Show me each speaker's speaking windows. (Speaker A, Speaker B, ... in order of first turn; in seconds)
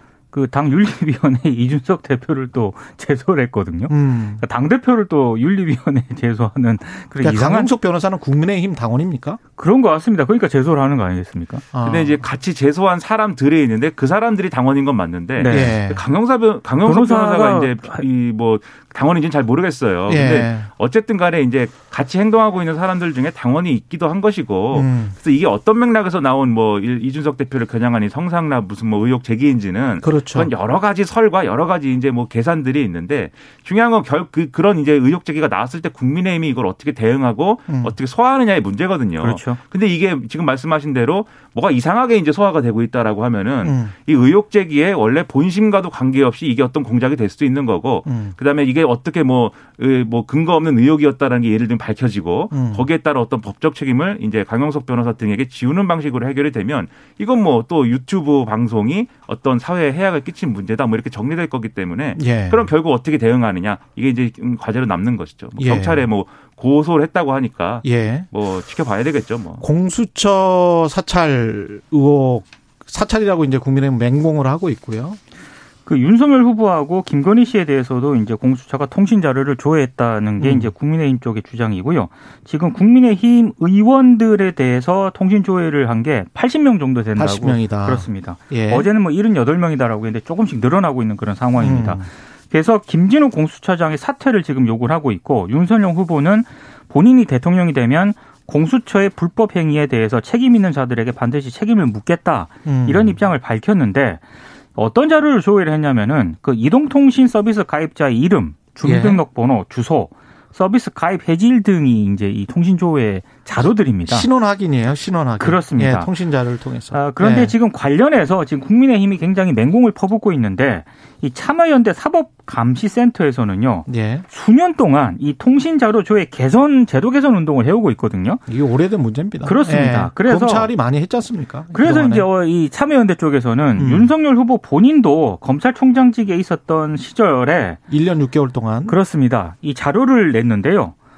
Speaker A: 0.3-7.7, 9.6-11.6, 15.4-15.8, 16.9-18.0, 39.2-39.6, 75.8-104.2, 104.8-114.3, 115.4-116.1, 116.9-128.4, 129.4-130.7, 131.7-137.8, 138.9-140.9
Speaker B: 3.9-4.4, 7.2-9.4, 11.7-12.2, 15.5-16.0, 20.1-20.7, 24.7-25.2, 30.0-30.5, 43.6-44.0, 48.1-48.4, 52.5-52.9, 62.2-62.7, 65.6-66.1, 67.8-68.3, 69.6-75.2, 80.4-80.7, 87.2-88.9, 91.6-92.1, 102.7-103.2, 108.8-109.2, 114.1-117.5, 123.9-124.3, 128.5-132.3, 133.8-134.1, 137.9-139.0
Speaker C: 11.8-69.7